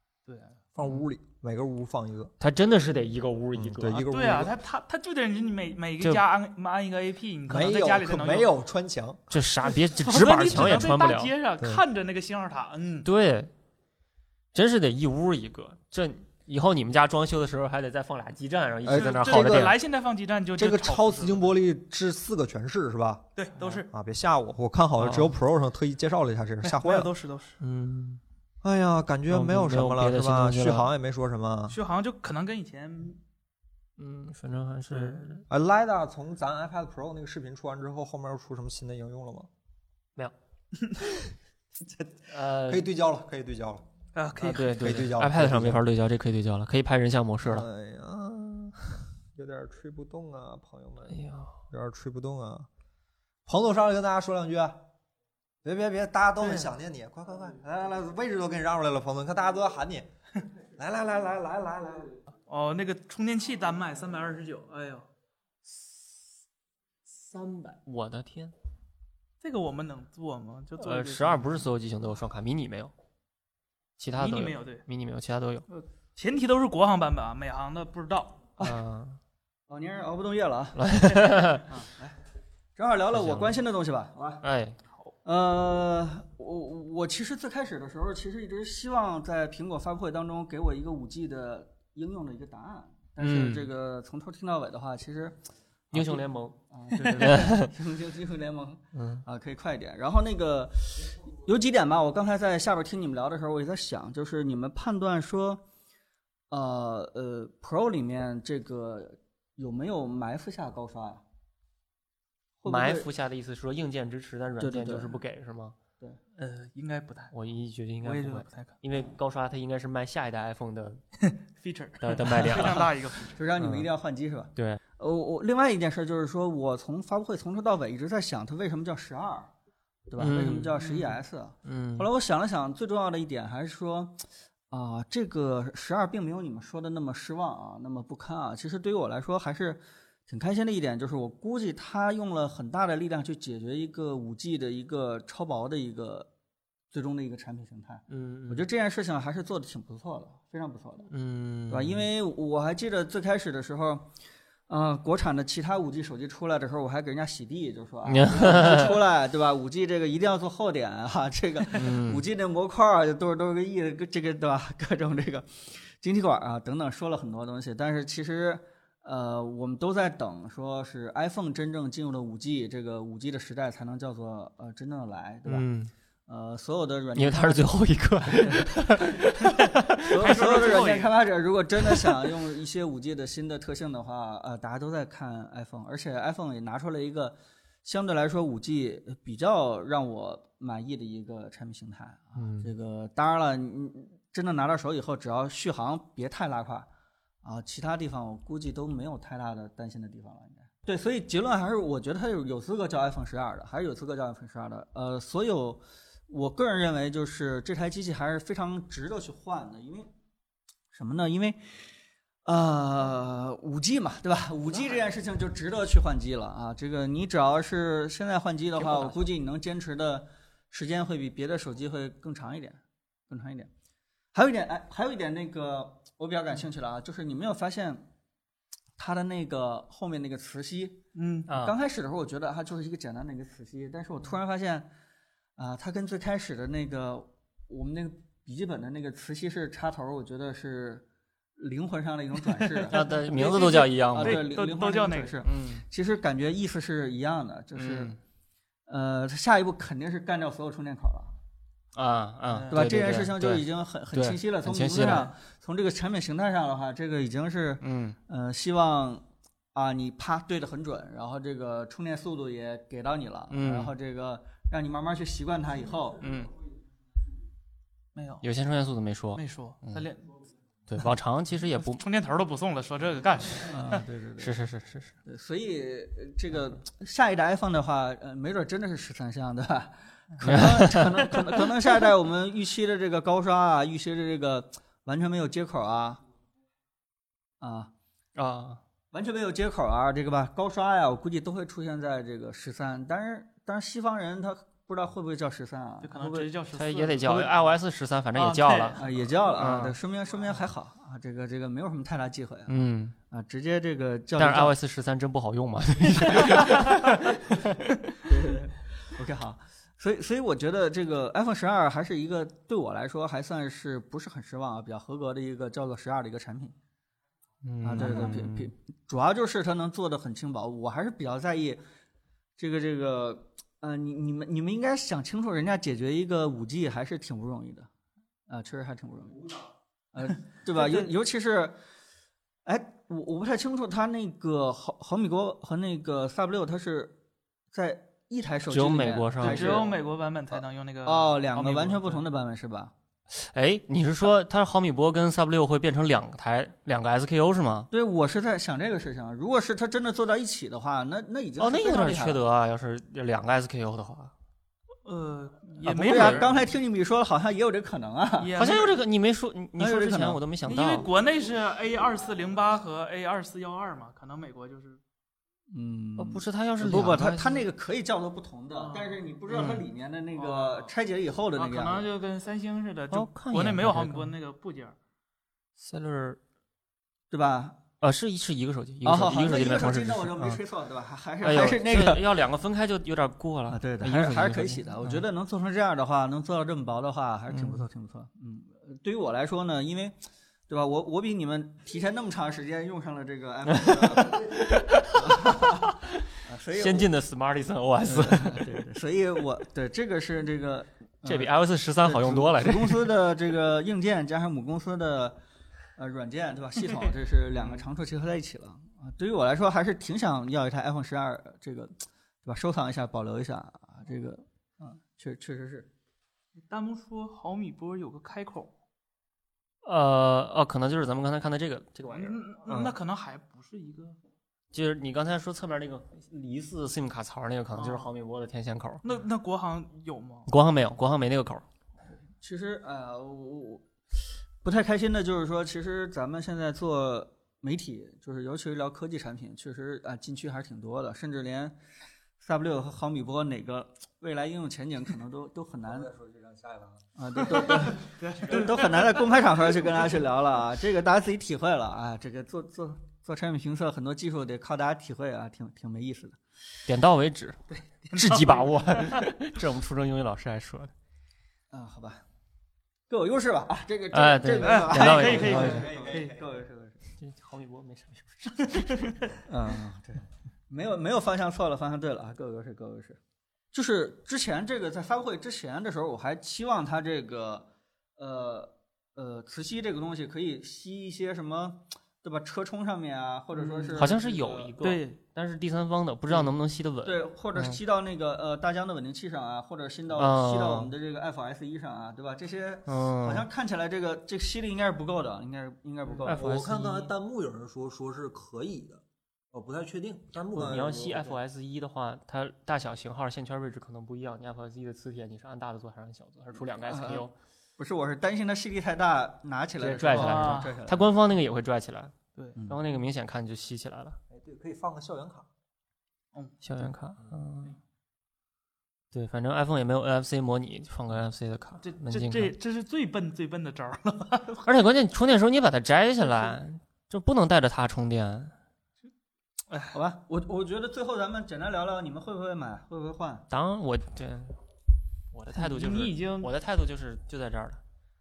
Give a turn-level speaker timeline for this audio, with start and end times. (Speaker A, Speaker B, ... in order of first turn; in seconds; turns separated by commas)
Speaker A: 0.3-0.6, Speaker B: 0.8-2.3, Speaker C: 2.4-4.1, Speaker B: 3.5-4.6, Speaker A: 4.1-8.5, Speaker B: 7.5-9.3, Speaker C: 9.3-11.3, Speaker A: 9.6-13.1, Speaker B: 10.5-10.9, Speaker C: 13.1-13.5, Speaker C: 14.5-19.8, Speaker B: 18.8-19.7, Speaker A: 18.9-21.5, Speaker B: 20.6-27.1, Speaker A: 23.4-23.9, Speaker C: 25.0-25.3, Speaker A: 26.6-27.6, Speaker C: 27.6-28.2, Speaker B: 28.6-31.8, Speaker C: 29.3-30.9, Speaker A: 31.7-33.2, Speaker C: 34.0-35.4, Speaker A: 34.9-35.2, Speaker B: 35.5-39.5, Speaker B: 41.8-43.9, Speaker C: 42.3-42.9, Speaker A: 44.1-44.9, Speaker C: 44.4-47.7, Speaker B: 44.4-45.8, Speaker B: 47.4-52.7, Speaker C: 51.1-51.6, Speaker B: 53.5-54.9, Speaker B: 55.6-62.1, Speaker A: 56.4-56.7, Speaker A: 62.5-65.1, Speaker C: 65.7-66.1, Speaker C: 67.1-68.5, Speaker A: 69.4-71.6, Speaker C: 70.8-72.9, Speaker C: 74.0-75.7, Speaker A: 74.2-74.8, Speaker A: 75.7-78.5, Speaker C: 78.6-79.2, Speaker D: 79.7-80.8, Speaker C: 80.8-81.7, Speaker D: 81.7-82.2, Speaker D: 82.8-84.5, Speaker C: 83.1-83.6, Speaker C: 84.4-84.8, Speaker D: 85.2-95.4, Speaker C: 93.2-93.7, Speaker C: 95.9-97.7, Speaker D: 95.9-105.6, Speaker C: 98.9-99.2, Speaker D: 106.5-111.2, Speaker D: 112.6-113.1, Speaker C: 112.7-115.8, Speaker D: 114.6-115.2, Speaker A: 116.4-117.3, Speaker C: 117.3-121.0, Speaker A: 118.0-118.8, Speaker A: 121.2-123.4, Speaker C: 122.0-122.9, Speaker D: 123.3-129.5, Speaker C: 123.6-123.9, Speaker C: 124.5-124.8, Speaker D: 130.1-146.3, Speaker C: 130.2-130.8, Speaker A: 130.8-131.2, Speaker C: 131.7-132.1, Speaker D: 146.9-151.1, Speaker C: 148.1-148.7, Speaker C: 151.1-152.1, Speaker D: 151.7-154.1, Speaker D: 154.7-175.7, Speaker C: 158.1-159.0, Speaker C: 161.7-162.2, Speaker C: 175.5-175.9, Speaker D: 176.3-177.7, Speaker C: 177.2-180.7, Speaker D: 178.4-178.7, Speaker D: 180.1-196.9, Speaker A: 180.2-181.2, Speaker C: 192.4-192.7, Speaker D: 197.4-210.1, Speaker D: 210.9-211.9, Speaker D: 212.4-223.7, Speaker C: 218.8-219.2, Speaker D: 224.3-228.1, Speaker D: 229.0-234.9, Speaker A: 231.2-231.5, Speaker C: 231.5-231.8, Speaker D: 235.6-241.1, Speaker D: 241.6-248.2, Speaker A: 242.5-245.4, Speaker C: 242.9-244.5, Speaker C: 245.4-245.8, Speaker C: 247.8-248.2, Speaker D: 248.9-251.3, Speaker C: 251.9-255.3, Speaker A: 252.5-252.9, Speaker D: 252.7-266.2, Speaker C: 257.8-258.2, Speaker C: 263.5-263.9, Speaker C: 266.2-266.5, Speaker A: 268.1-268.4, Speaker C: 268.4-270.1, Speaker A: 269.4-270.4, Speaker C: 270.9-272.0, Speaker A: 271.8-274.1, Speaker D: 273.7-274.6, Speaker C: 274.4-275.1, Speaker D: 275.2-286.2, Speaker C: 280.4-281.3, Speaker D: 287.6-287.9, Speaker C: 288.4-288.8, Speaker D: 289.1-296.5, Speaker A: 296.0-297.8, Speaker C: 296.7-300.0, Speaker A: 298.4-299.2, Speaker D: 299.0-304.8, Speaker C: 302.7-303.1, Speaker C: 304.4-307.9, Speaker D: 308.2-316.8, Speaker C: 317.6-318.7, Speaker D: 317.8-321.8, Speaker A: 318.0-318.3, Speaker D: 322.6-327.9, Speaker D: 328.5-329.6, Speaker D: 330.1-331.8, Speaker A: 330.8-331.1, Speaker D: 332.6-337.2, Speaker D: 337.7-340.0, Speaker C: 338.7-339.9, Speaker A: 339.4-342.3, Speaker D: 340.5-342.9, Speaker C: 343.3-347.9, Speaker D: 347.9-352.4, Speaker C: 351.6-354.3, Speaker A: 355.1-356.7, Speaker D: 355.9-358.5, Speaker C: 355.9-356.5, Speaker A: 358.4-359.0, Speaker C: 358.6-361.1, Speaker D: 359.8-360.4, Speaker A: 360.7-365.0, Speaker D: 365.7-372.1, Speaker C: 366.2-367.6, Speaker A: 368.7-369.2, Speaker C: 369.5-369.8, Speaker A: 370.4-370.9, Speaker A: 371.6-375.0, Speaker C: 373.1-374.3, Speaker C: 375.8-376.4, Speaker D: 377.3-377.8, Speaker C: 378.0-380.6, Speaker D: 379.0-382.4, Speaker C: 381.4-385.2, Speaker D: 383.7-397.1, Speaker C: 387.5-387.8, Speaker C: 393.7-395.9, Speaker C: 396.7-398.9, Speaker D: 398.0-401.5, Speaker C: 401.2-403.1, Speaker D: 402.0-405.4, Speaker D: 406.0-415.9, Speaker A: 416.7-418.7, Speaker C: 419.8-422.9, Speaker A: 422.1-424.2, Speaker C: 424.7-429.0, Speaker A: 427.7-428.1, Speaker A: 429.0-430.5, Speaker C: 430.5-431.6, Speaker D: 432.4-433.9, Speaker D: 434.6-441.8, Speaker D: 442.4-446.1, Speaker B: 445.9-447.8, Speaker D: 447.2-456.4, Speaker A: 447.5-449.3, Speaker C: 456.9-457.6, Speaker A: 457.7-459.3, Speaker C: 458.1-460.9, Speaker D: 461.7-462.2, Speaker D: 463.1-467.0, Speaker C: 464.1-465.9, Speaker A: 464.6-466.4, Speaker B: 465.2-466.6, Speaker C: 467.2-469.1, Speaker A: 468.8-469.1, Speaker D: 469.4-473.2, Speaker D: 473.7-484.7, Speaker A: 483.5-484.1, Speaker C: 483.9-487.8, Speaker A: 484.8-485.2, Speaker D: 487.0-496.5, Speaker C: 490.1-490.9, Speaker C: 492.9-493.5, Speaker C: 496.2-497.1, Speaker B: 496.3-501.4, Speaker C: 500.5-507.3, Speaker D: 506.8-507.3, Speaker D: 507.8-511.1, Speaker C: 509.8-512.1, Speaker A: 510.1-510.8, Speaker C: 512.7-514.2, Speaker B: 514.3-515.5, Speaker C: 516.6-517.8, Speaker C: 519.1-522.5, Speaker A: 521.8-524.6, Speaker C: 524.6-528.5, Speaker A: 526.2-526.6, Speaker A: 529.7-530.0, Speaker D: 529.9-533.5, Speaker C: 533.5-534.6, Speaker C: 535.3-537.8, Speaker A: 535.5-536.5